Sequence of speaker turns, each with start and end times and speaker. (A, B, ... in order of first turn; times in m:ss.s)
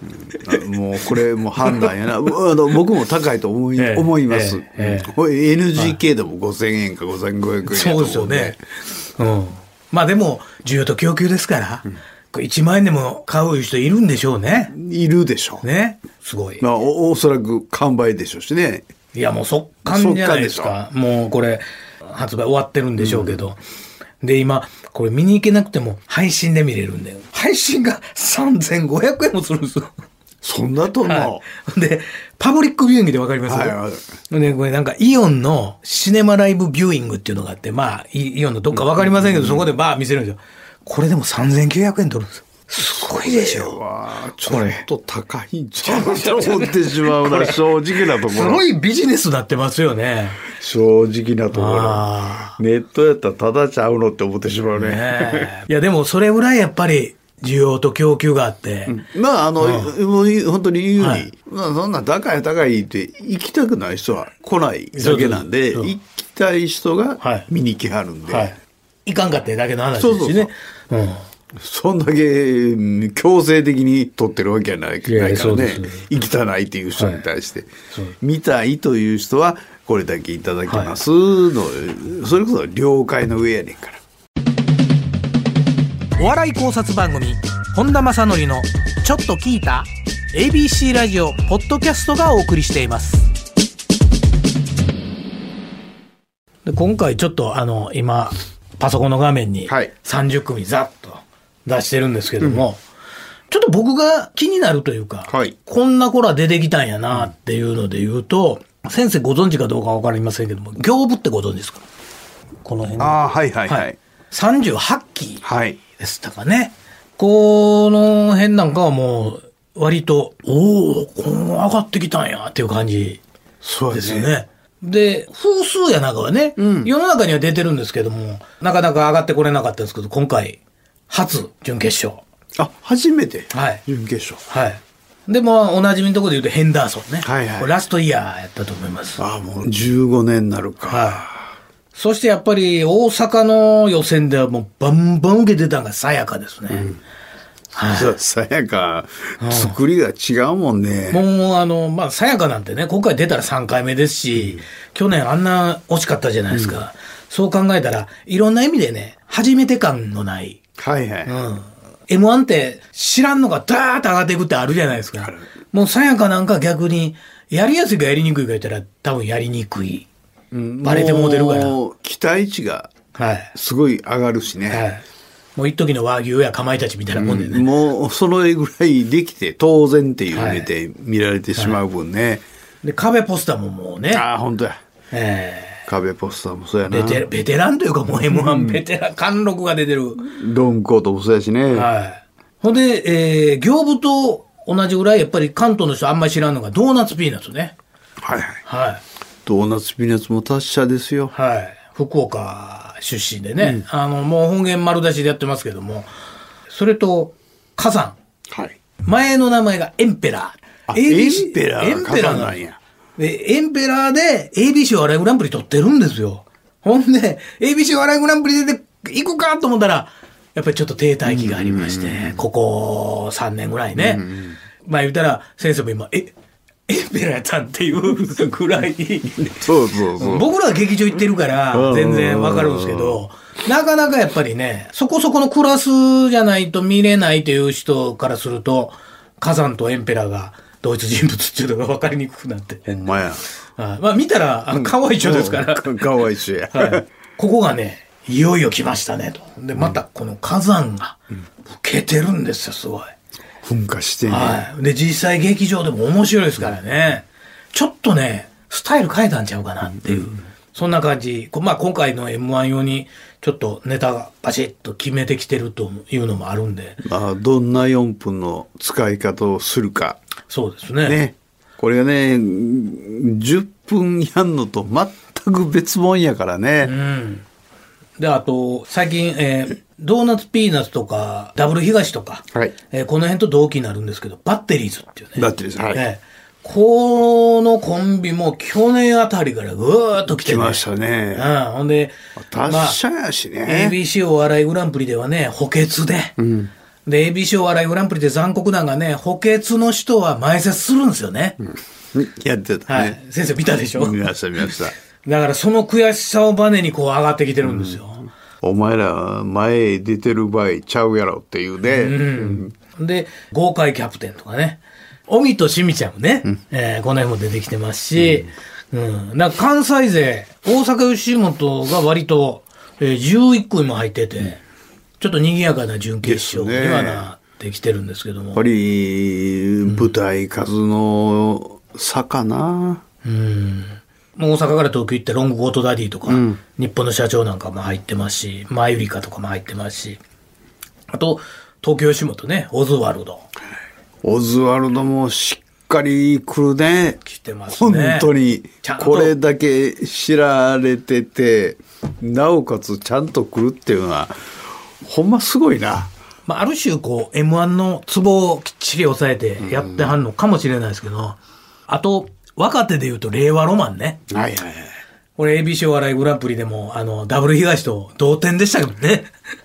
0:00.3-0:08.6 A
0:01.6-0:01.9 B
0:03.8-0:05.1 B
0:07.7-0:08.6 B
0:09.2-0:14.7 B
0:14.7-0:15.6 A
0:15.6-0:16.6 B
0:16.6-0:18.9 A
0:19.1-0:23.6 B
0:19.9-0:20.8 A
0:23.0-0:23.4 A
0:24.2-0:29.9 B
0:30.4-0:31.4 A
0:31.0-0:33.8 B
0:33.5-0:34.0 A
0:34.3-0:43.8 B
0:38.8-0:39.7 A
0:42.8-0:48.6 A
0:44.4-0:44.9 B
0:45.8-0:50.4 B
0:50.5-0:55.5 A
0:51.5-0:52.6 B
0:54.8-0:59.0 B
0:58.9-1:08.5 A
0:59.6-0:59.9 B
1:01.0-1:01.3 B
1:05.0-1:05.9 B
1:07.2-1:07.5 B
1:08.3-1:11.3 B
1:10.0-1:10.5 A
1:11.5-1:17.7 A
1:15.0-1:16.1 B
1:17.0-1:17.2 B
1:18.2-1:24.0 A
1:20.7-1:21.0 B
1:26.2-1:33.3 B
1:36.7-1:42.8 B
1:43.5-1:51.8 B
1:45.3-1:45.6 A
1:52.6-1:55.4 B
1:53.0-1:54.0 A
1:55.4-1:55.8 A
1:56.0-2:03.2 B
2:03.6-2:04.3 A
2:03.9-2:12.2 B
2:06.6-2:06.9 A
2:12.6-2:14.4 A
2:13.5-2:13.8 B
2:14.5-2:19.2 B
2:17.2-2:17.7 A
2:19.2-2:21.5 A
2:20.9-2:21.3 B
2:21.9-2:26.9 B
2:27.8-2:28.1 B
2:27.9-2:31.2 A
2:29.4-2:29.8 B
2:31.1-2:40.6 B
2:40.8-2:41.4 A
2:41.3-2:50.1 B
2:45.2-2:45.5 A
2:50.5-2:52.9 A
2:50.8-2:51.8 B
2:53.2-2:53.5 B
2:53.5-2:54.8 A
2:54.7-2:55.0 B
2:55.6-2:57.7 B
2:57.2-3:02.4 A
3:00.3-3:00.7 B
3:02.8-3:04.2 B
3:04.1-3:04.8 A
3:05.1-3:05.8 B
3:05.9-3:07.2 A
3:06.9-3:10.3 B
3:08.3-3:08.8 A
3:10.2-3:11.9 A
3:11.7-3:17.8 B
3:18.2-3:18.6 A
3:18.7-3:19.0 B
3:19.4-3:21.3 A
3:21.3-3:26.1 B
3:26.7-3:28.2 B
3:28.5-3:28.8 A
3:29.0-3:32.6 B
3:30.9-3:32.8 A
3:33.2-3:44.3 B
3:41.3-3:42.4 A
3:44.0-3:44.6 A
3:44.8-3:46.3 B
3:46.9-4:03.0 B
3:49.4-3:50.5 A
3:51.7-3:53.2 A
4:02.9-4:03.4 A
4:03.8-4:06.1 B
4:04.7-4:07.0 A
4:06.7-4:13.1 B
4:13.6-4:14.6 A
4:14.3-4:27.0 B
4:27.0-4:30.2 A
4:30.5-4:31.2 B
4:31.0-4:36.9 A
4:36.8-4:37.4 B
4:38.2-4:50.8 B
4:45.4-4:46.0 A
4:50.3-4:51.5 A
4:51.3-4:53.0 B
4:52.4-4:54.0 A
4:53.6-4:56.4 B
4:56.4-4:56.7 A
4:57.1-5:01.6 B
5:02.1-5:03.2 A
5:02.9-5:04.7 B
5:03.9-5:05.0 A
5:05.2-5:08.3 B
5:07.6-5:08.0 A
5:08.6-5:12.7 A
5:11.8-5:24.6 B
5:18.2-5:18.4 A
5:25.2-5:28.6 B
5:26.2-5:27.3 A
5:28.5-5:33.0 A
5:33.2-5:40.2 B
5:36.3-5:36.6 A
5:41.1-5:43.5 B
5:44.2-5:47.2 A
5:47.2-5:48.3 B
5:47.7-5:54.4 A
5:48.8-5:49.4 B
5:55.0-5:56.1 A
5:56.5-6:04.2 B
5:59.6-6:00.1 A
6:04.3-6:05.0 A
6:05.4-6:09.3 B